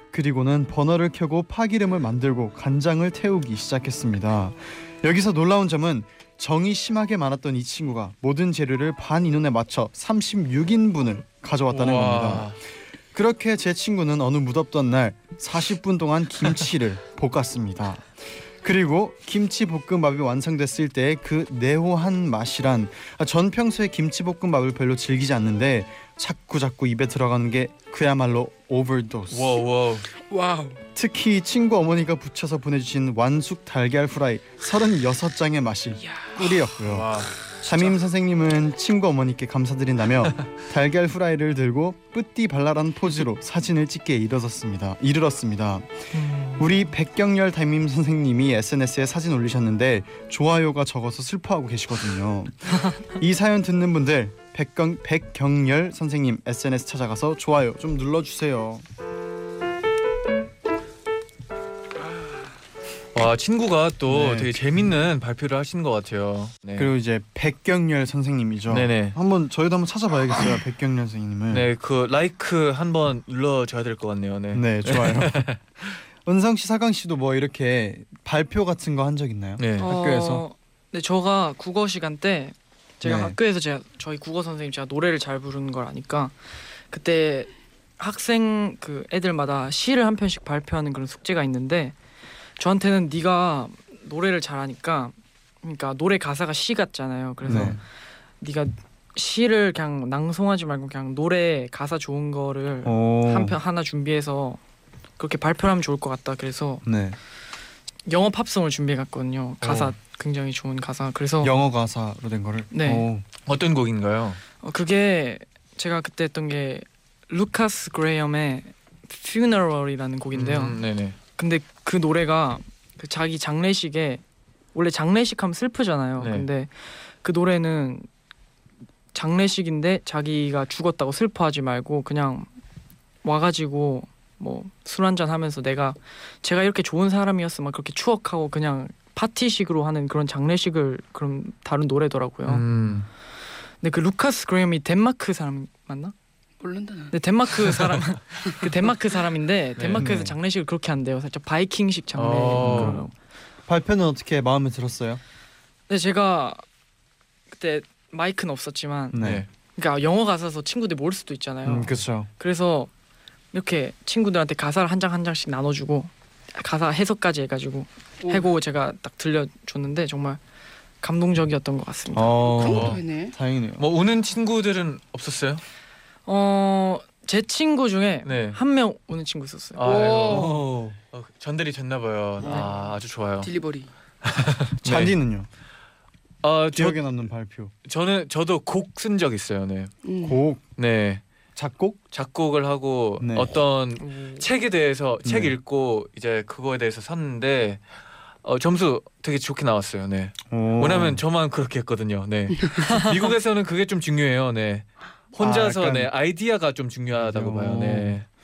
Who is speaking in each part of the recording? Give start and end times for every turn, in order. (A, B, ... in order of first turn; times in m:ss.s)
0:00.1-0:12.6 A
0:11.7-0:12.6 B
0:13.1-0:29.6 A
0:29.3-0:30.1 B
0:30.2-0:30.8 C
0:31.0-0:58.8 A
0:36.0-0:36.5 C
0:36.9-0:37.3 B
0:37.6-0:37.9 C
0:46.1-0:46.6 D
1:03.1-1:06.9 B
1:04.1-1:04.6 A
1:06.8-1:11.7 A
1:08.7-1:09.2 B
1:11.5-1:16.0 B
1:14.5-1:15.6 A
1:16.2-1:20.4 A
1:19.6-1:19.9 B
1:19.8-1:26.3 D
1:23.0-1:23.4 A
1:26.9-1:32.0 D
1:32.6-1:37.8 D
1:37.4-1:37.8 A
1:38.4-1:44.6 D
1:42.8-1:43.6 A
1:45.2-1:46.8 D
1:46.8-1:47.2 A
1:48.1-1:51.5 D
1:49.6-1:49.9 B
1:51.4-1:53.2 A
1:52.7-1:53.1 D
1:53.5-1:54.4 B
1:54.6-2:00.8 D
2:00.3-2:01.2 B
2:01.4-2:04.2 D
2:04.7-2:08.1 D
2:06.2-2:06.4 B
2:09.1-2:12.5 D
2:13.2-2:22.6 D
2:22.5-2:23.1 B
2:23.8-2:26.1 D
2:26.6-2:27.2 C
2:27.1-2:33.1 D
2:29.8-2:30.1 B
2:30.0-2:30.4 A
2:32.1-2:33.0 B
2:32.6-2:33.0 A
2:33.7-2:35.2 A
2:35.9-2:36.6 D
2:37.5-2:39.2 D
2:39.1-2:39.4 A
2:39.2-2:39.5 B
2:39.8-2:42.9 D
2:41.6-2:42.3 A
2:43.5-2:50.4 D
2:48.2-2:48.5 C
2:51.0-2:52.5 D
2:52.1-2:53.9 A
2:52.4-2:53.3 C
2:52.6-2:53.0 B
2:53.8-2:55.6 B
2:56.3-2:59.9 D
2:58.2-2:58.6 B
2:59.8-3:03.5 B
2:59.8-3:00.6 C
3:00.3-3:01.0 A
3:02.4-3:03.9 C
3:04.2-3:05.1 B
3:04.8-3:05.5 A
3:06.4-3:07.0 B
3:06.7-3:07.7 A
3:07.8-3:10.0 B
3:10.0-3:10.4 C
3:10.2-3:10.7 A
3:10.8-3:11.2 B
3:11.6-3:12.0 A
3:12.1-3:17.8 B
3:13.2-3:13.6 A
3:14.0-3:14.4 D
3:15.2-3:15.6 A
3:18.4-3:28.3 B
3:20.5-3:21.2 A
3:25.4-3:26.1 A
3:27.2-3:28.2 A